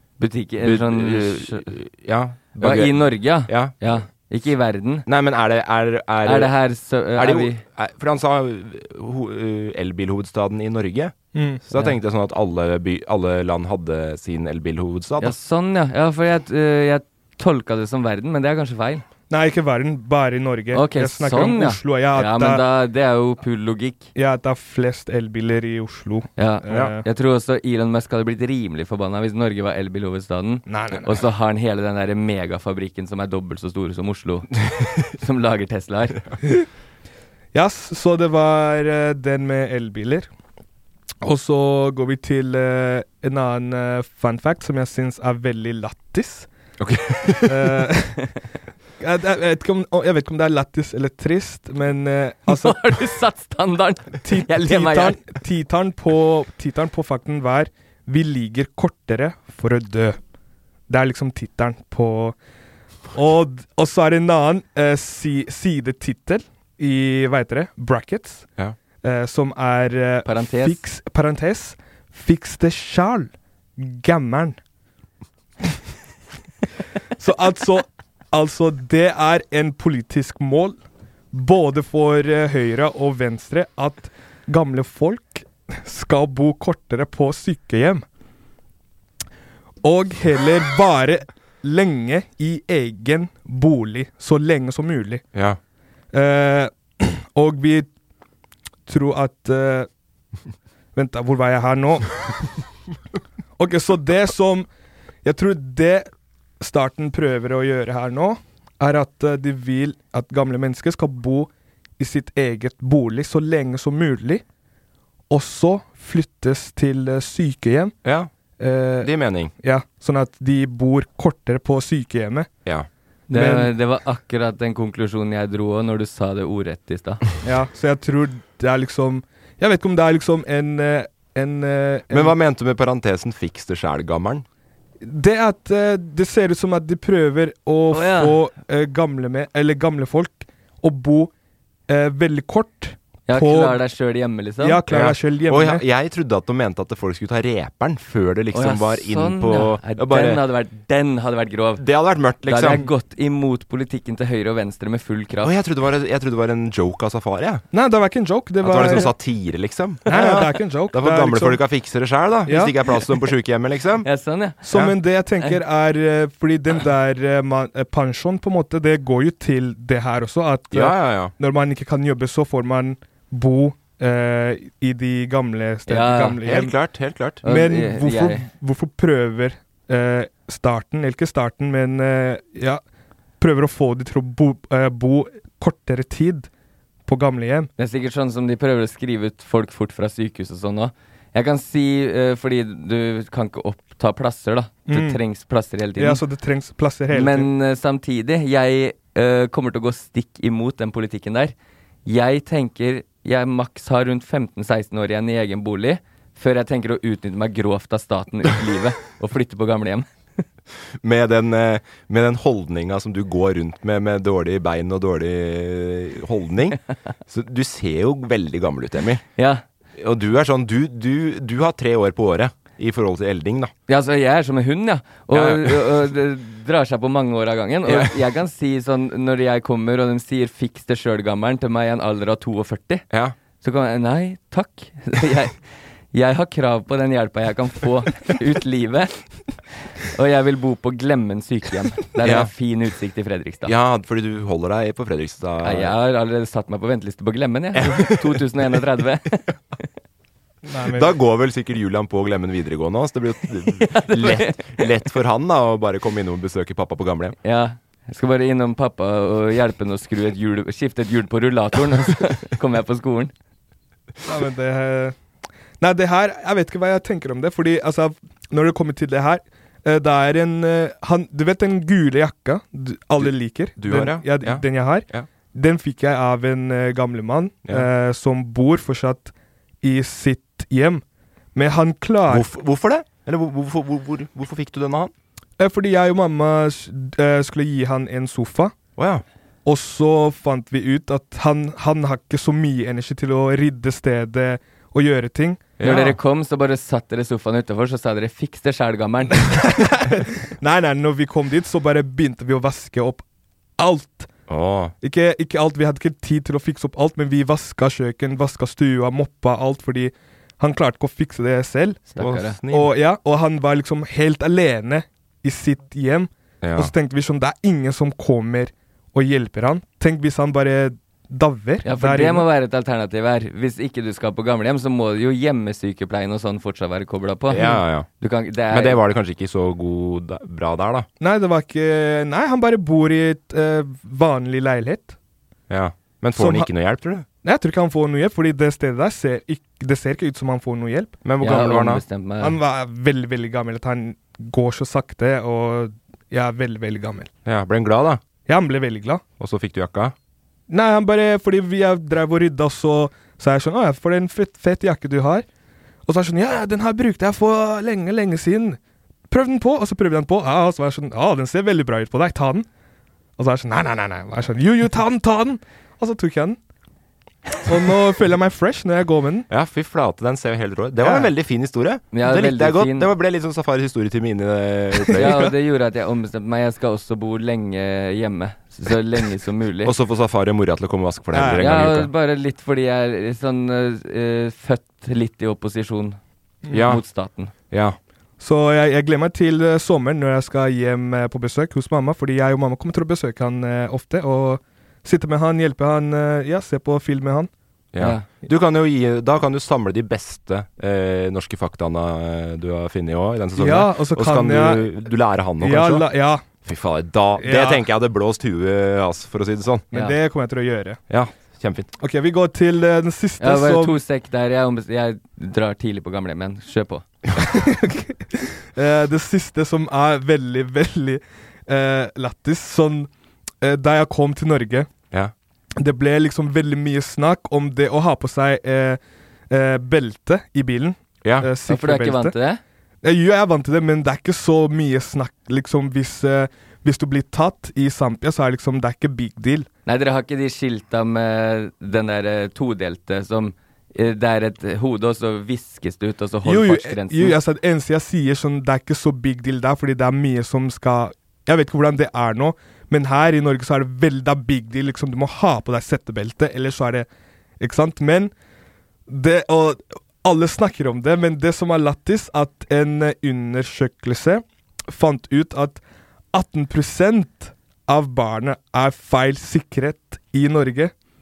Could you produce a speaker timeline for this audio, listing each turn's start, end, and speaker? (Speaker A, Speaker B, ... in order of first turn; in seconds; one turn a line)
Speaker A: 0.2-1.7
Speaker B: 0.6-3.7
Speaker A: 2.6-5.0
Speaker B: 5.1-6.5
Speaker A: 6.2-7.6
Speaker B: 7.1-15.3
Speaker C: 11.3-11.6
Speaker A: 15.2-19.0
Speaker C: 19.3-22.6
Speaker A: 20.7-24.1
Speaker C: 24.1-27.0
Speaker A: 26.4-34.5
Speaker C: 30.7-31.2
Speaker B: 34.7-35.1
Speaker A: 35.1-36.2
Speaker C: 37.5-40.3
Speaker C: 41.2-46.5
Speaker B: 46.8-47.9
Speaker C: 47.5-48.3
Speaker C: 49.0-52.9
Speaker A: 52.5-55.2
Speaker C: 54.2-60.2
Speaker C: 60.9-62.4
Speaker C: 63.1-68.5
Speaker C: 69.0-74.6
Speaker A: 70.2-70.8
Speaker C: 77.2-80.8
Speaker C: 81.3-88.0
Speaker C: 89.8-95.2
Speaker B: 95.3-95.6
Speaker C: 96.1-97.9
Speaker C: 98.9-99.9
Speaker C: 100.9-102.3
Speaker C: 103.6-104.7
Speaker C: 105.2-106.1
Speaker C: 106.6-114.4
Speaker C: 115.3-117.9
Speaker B: 118.0-118.3
Speaker C: 118.6-119.1
Speaker B: 119.0-119.5
Speaker C: 119.6-122.5
Speaker A: 123.3-127.2
Speaker C: 123.3-123.7
Speaker C: 127.4-132.3
Speaker B: 132.1-134.4
Speaker C: 135.0-141.3
Speaker A: 137.9-138.4
Speaker C: 141.9-143.8
Speaker A: 143.3-144.8
Speaker C: 144.6-145.8
Speaker B: 144.9-150.4
Speaker A: 148.5-151.8
Speaker B: 151.8-152.8
Speaker A: 152.4-155.5
Speaker B: 155.4-157.6
Speaker C: 157.7-159.1
Speaker B: 158.6-164.1
Speaker C: 160.1-161.6
Speaker C: 162.5-162.7
Speaker A: 164.0-164.6
Speaker C: 164.6-176.7
Speaker B: 164.7-164.9
Speaker B: 170.7-171.3
Speaker A: 175.9-176.4
Speaker B: 176.4-177.4
Speaker C: 177.4-182.8
Speaker A: 177.4-178.4
Speaker C: 183.4-186.5
Speaker C: 187.1-187.7
Speaker A: 187.8-196.2
Speaker C: 194.9-195.2
Speaker C: 196.0-197.5
Speaker A: 197.1-201.5
Speaker A: 202.1-210.4
Speaker B: 211.0-219.2
Speaker A: 219.4-219.6
Speaker B: 219.9-223.7
Speaker A: 223.9-233.0
Speaker B: 225.3-226.1
Speaker B: 227.8-228.1
Speaker B: 233.1-233.3
Speaker A: 233.6-235.6
Speaker A: 236.1-239.2
Speaker A: 240.1-243.7
Speaker B: 242.2-242.5
Speaker B: 243.6-245.9
Speaker A: 245.6-249.9
Speaker B: 247.7-248.4
Speaker C: 250.6-251.1
Speaker B: 250.9-257.4
Speaker A: 253.7-254.9
Speaker A: 257.4-263.3
Speaker C: 264.2-265.1
Speaker C: 265.8-281.0
Speaker B: 273.2-275.3
Speaker C: 281.5-282.5
Speaker B: 282.3-285.1
Speaker C: 285.6-288.7
Speaker B: 289.0-289.2
Speaker C: 289.6-295.7
Speaker B: 295.8-296.2
Speaker A: 295.8-299.6
Speaker C: 299.5-303.2
Speaker C: 303.8-304.3
Speaker B: 304.5-304.9
Speaker C: 305.0-312.1
Speaker A: 312.1-312.6
Speaker B: 312.2-312.9
Speaker C: 312.7-322.4
Speaker B: 316.6-316.9
Speaker A: 321.8-329.0
Speaker B: 327.5-328.1
Speaker B: 328.7-331.1
Speaker C: 331.2-335.1
Speaker B: 335.7-337.2
Speaker C: 336.4-336.7
Speaker C: 337.4-341.2
Speaker B: 341.2-342.0
Speaker A: 341.4-342.6
Speaker C: 342.4-347.3
Speaker B: 347.4-348.2
Speaker C: 348.4-349.2
Speaker B: 349.4-350.1
Speaker C: 350.7-355.4
Speaker C: 356.1-358.8
Speaker C: 359.3-362.7
Speaker C: 363.4-366.6
Speaker C: 367.6-369.5
Speaker B: 369.5-375.4
Speaker C: 371.0-371.3
Speaker A: 372.1-373.1
Speaker C: 375.1-375.5
Speaker A: 375.1-379.9
Speaker B: 379.8-382.1
Speaker C: 381.3-381.7
Speaker A: 381.6-386.2
Speaker C: 386.6-386.9
Speaker B: 386.7-387.0
Speaker A: 386.8-387.5
Speaker B: 387.7-388.0
Speaker C: 388.4-397.5
Speaker B: 397.9-406.1
Speaker A: 398.0-398.3
Speaker C: 403.6-404.9
Speaker C: 405.6-406.4
Speaker B: 406.6-409.9
Speaker C: 407.4-407.8
Speaker C: 409.9-411.0
Speaker B: 411.1-411.9
Speaker C: 412.0-414.0
Speaker A: 413.4-417.0
Speaker C: 417.4-423.1
Speaker C: 423.6-424.9
Speaker C: 425.8-432.3
Speaker B: 431.2-431.5
Speaker A: 431.7-432.6
Speaker C: 433.0-439.7
Speaker A: 439.9-447.4
Speaker C: 446.4-457.1
Speaker C: 457.6-458.3
Speaker C: 459.1-465.8
Speaker C: 466.3-470.9